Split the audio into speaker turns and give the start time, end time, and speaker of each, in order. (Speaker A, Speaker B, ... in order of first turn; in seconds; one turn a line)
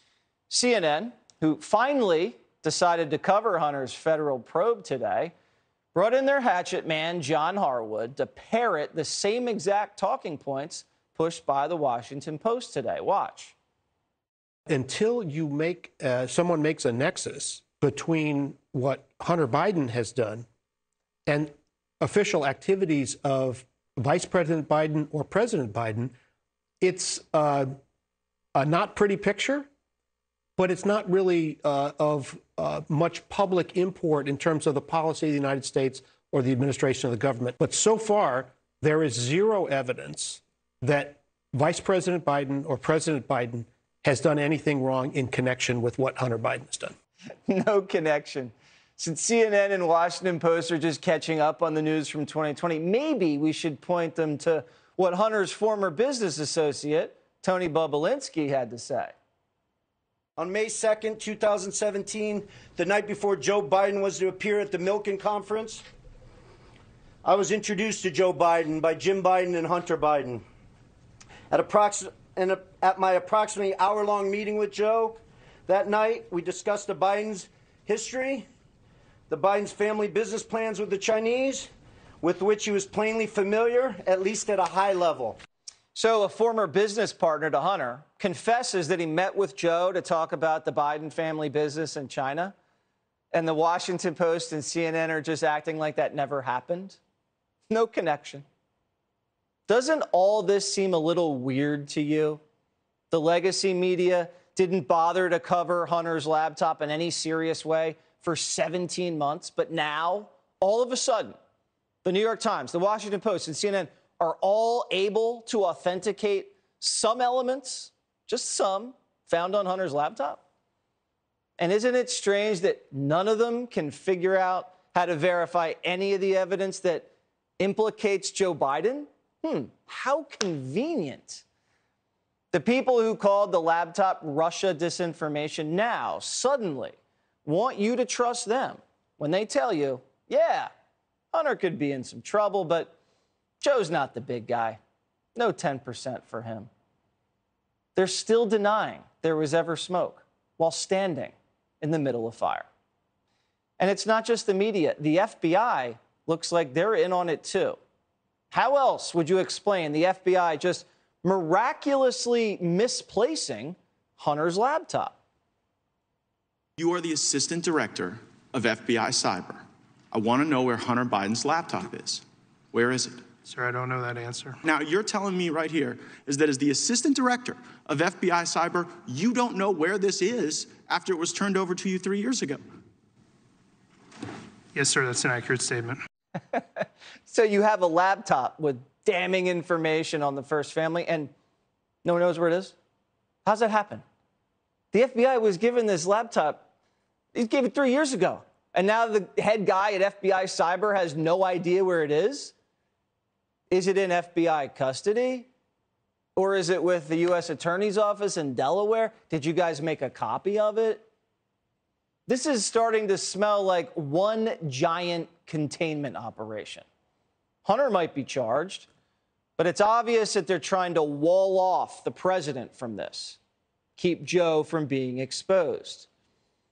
Speaker A: 0.5-5.3
Speaker A: 5.9-13.6
Speaker B: 14.7-20.5
Speaker B: 21.3-26.1
Speaker B: 26.8-27.7
Speaker B: 28.6-29.7
Speaker B: 30.6-47.0
Speaker A: 47.5-59.1
Speaker C: 60.4-65.8
Speaker C: 67.2-70.4
Speaker C: 71.5-78.5
Speaker C: 79.3-81.7
Speaker C: 82.2-85.4
Speaker A: 85.9-92.5
Speaker A: 93.3-97.0
Speaker A: 97.7-98.5
Speaker A: 99.7-102.4
Speaker A: 103.1-111.4
Speaker A: 112.0-120.4
Speaker A: 121.6-127.1
Speaker A: 127.6-131.4
Speaker A: 132.5-140.7
Speaker A: 141.3-142.9
Speaker A: 143.6-144.8
Speaker A: 145.4-146.7
Speaker A: 148.0-152.7
Speaker A: 153.8-157.8
Speaker A: 158.5-165.2
Speaker D: 166.8-173.2
Speaker E: 173.5-174.6
Speaker D: 174.6-182.6
Speaker E: 184.8-186.0
Speaker A: 186.5-191.3
Speaker A: 192.0-192.7
Speaker A: 193.4-194.0
Speaker A: 194.9-196.6
Speaker A: 197.3-202.5
Speaker A: 203.7-205.5
Speaker A: 206.4-211.1
Speaker A: 212.3-216.8
Speaker A: 217.6-218.9
Speaker A: 219.6-223.4
Speaker A: 224.0-226.1